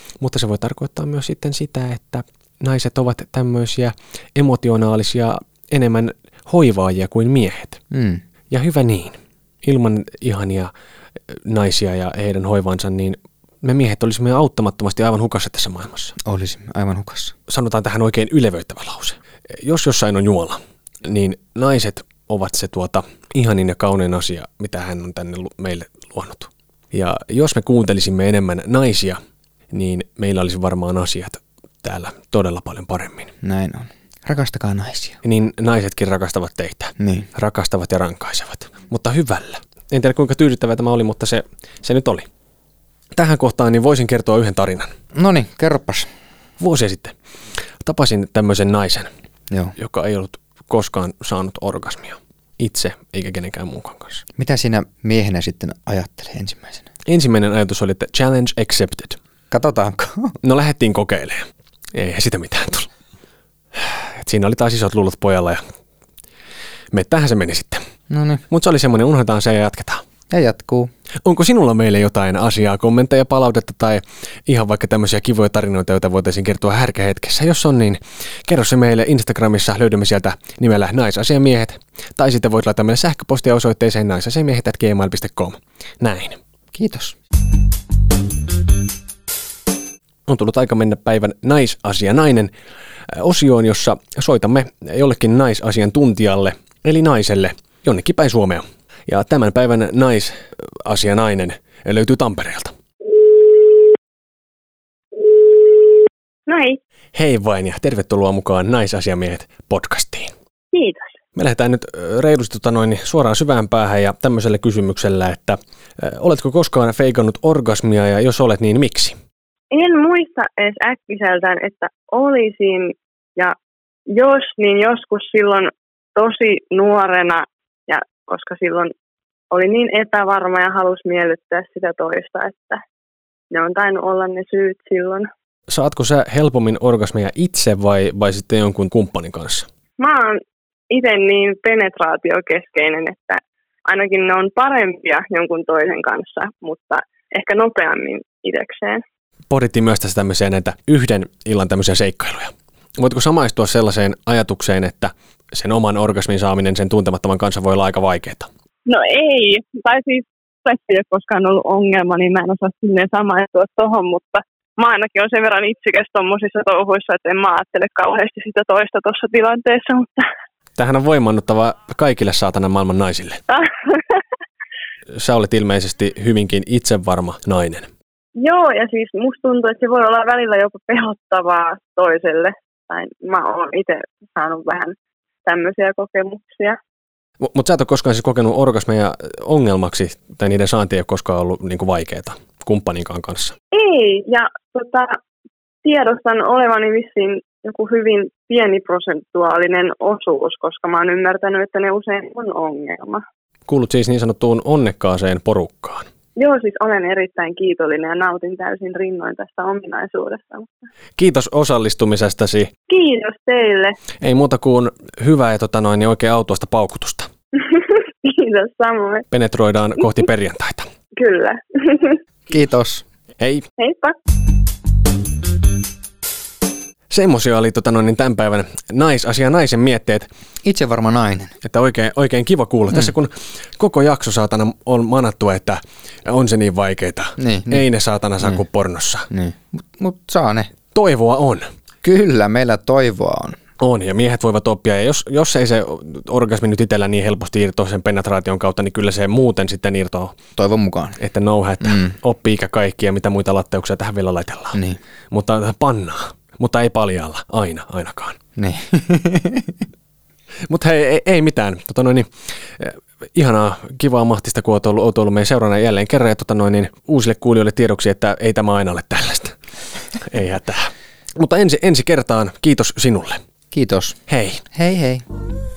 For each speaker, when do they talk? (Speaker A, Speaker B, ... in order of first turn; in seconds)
Speaker A: 0.2-7.8, 8.5-10.7, 11.3-16.1, 17.5-29.2, 29.7-33.3, 35.2-42.3, 43.1-44.9, 46.6-47.1, 47.8-49.1, 49.8-54.2, 57.1-59.2, 60.4-62.9, 63.8-65.6, 66.9-67.8, 68.5-70.0, 71.2-86.4, 90.3-92.5, 93.1-102.7, 107.1-110.3, 111.3-119.2, 135.7-139.7, 149.5-158.5, 170.8-173.4, 175.1-177.9, 187.4-193.6, 203.7-206.1, 211.2-212.7, 214.2-217.3, 219.3-220.9, 223.4-223.7, 227.1-230.3, 231.6-239.3, 240.9-241.7, 243.8-250.3, 251.2-254.8, 255.3-258.4, 260.7-269.6, 270.1-273.4, 274.3-274.6
Speaker B: 7.9-8.2, 16.2-17.4, 33.4-35.2, 37.0-37.3, 45.1-46.1, 49.5-49.8, 54.4-56.9, 59.5-60.4, 68.1-68.4, 70.3-70.9, 86.7-87.2, 222.5-223.0, 230.6-231.5, 237.4-237.9, 239.3-240.7, 242.0-243.6, 250.6-251.2, 251.8-252.1, 258.6-259.8, 273.7-274.2, 274.7-275.2
Speaker C: 106.5-106.8, 110.7-111.1, 119.7-123.5, 124.1-128.9, 129.5-132.8, 133.5-135.3, 140.0-140.4, 140.9-149.0, 158.9-170.3, 173.5-174.2, 178.4-186.8, 193.7-195.1, 195.8-203.2, 206.4-210.7, 212.9-214.0, 217.6-219.3, 221.2-222.2, 223.8-224.2